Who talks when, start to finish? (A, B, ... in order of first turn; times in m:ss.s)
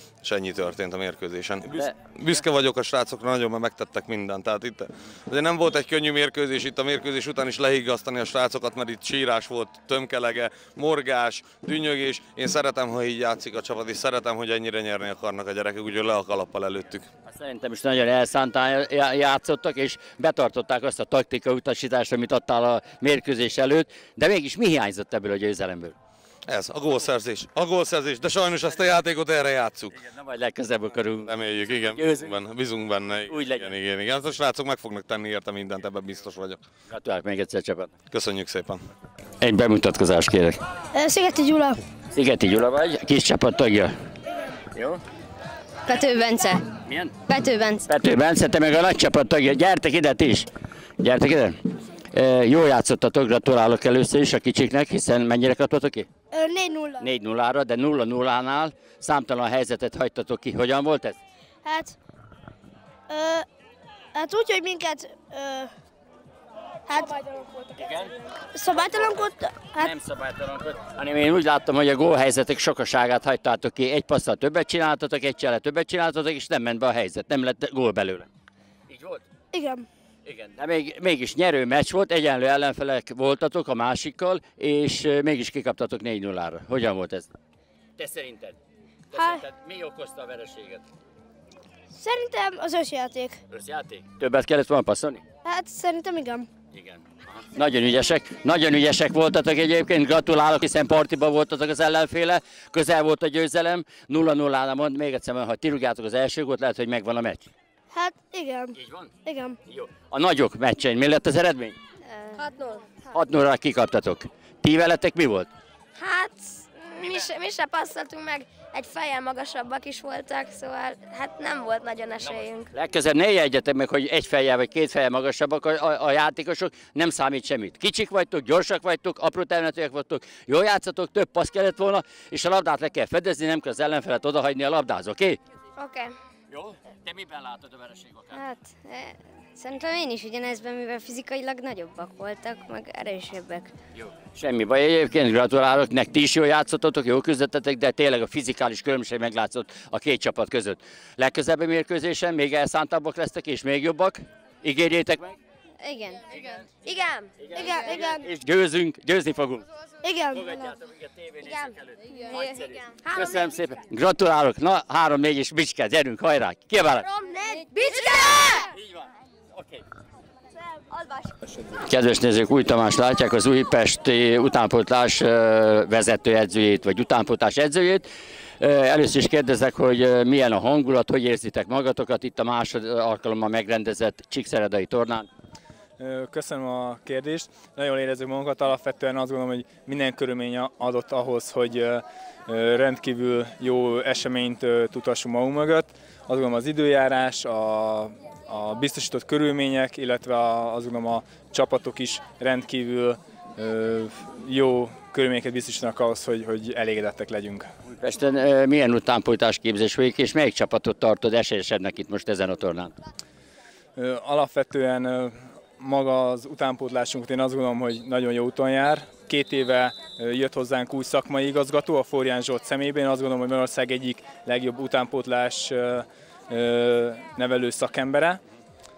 0:00.2-0:17.1 A
0:01.7-0:02.4 B
0:17.3-0:26.0 B
0:26.5-0:30.0 A
0:30.0-0:31.3 B
0:31.2-0:36.6 A
0:31.9-0:32.3 B
0:33.3-0:33.7 B
0:36.9-0:37.9 B
0:38.1-0:38.8 A
0:39.4-0:40.6 B
0:41.0-0:41.8 C
0:42.1-0:43.9 B
0:44.8-0:45.0 B
0:45.9-0:46.6 D
0:46.9-0:47.2 B
0:47.3-0:47.8 D
0:47.8-0:51.6 B
0:52.1-0:56.1 B
0:56.3-0:57.1 C
0:57.0-1:01.2 B
1:01.6-1:02.0 C
1:03.1-1:03.5 C
1:04.2-1:05.7 C
1:06.9-1:08.0 C
1:08.5-1:09.9 C
1:08.7-1:09.2 B
1:09.8-1:18.3 B
1:18.9-1:19.2 B
1:19.5-1:19.9 C
1:20.2-1:27.3 B
1:28.0-1:28.6 B
1:29.1-1:30.8 B
1:29.2-1:29.4 C
1:31.9-1:33.4 C
1:33.5-1:35.2 B
1:35.4-1:36.5 C
1:36.7-1:47.5 B
1:47.9-1:49.6 C
1:48.8-1:49.1 B
1:49.7-1:51.8 B
1:52.1-1:52.8 D
1:52.4-1:52.8 C
1:53.1-1:55.5 B
1:56.0-2:02.7 D
2:02.2-2:15.4 B
2:15.8-2:16.2 D
2:16.5-2:18.3 B
2:18.3-2:23.7 D
2:24.0-2:35.4 B
2:35.8-2:38.1 D
2:36.3-2:36.6 B
2:37.4-2:39.6 B
2:37.6-2:38.2 C
2:40.0-2:40.7 C
2:40.4-2:41.7 B
2:41.4-2:43.6 D
2:42.2-2:47.1 B
2:47.0-2:48.6 D
2:47.4-2:48.7 C
2:48.8-2:49.0 B
2:51.8-2:58.1 B
2:58.6-3:05.3 B
3:06.0-3:27.7 E
3:27.9-3:33.0 B
3:34.0-3:48.4 E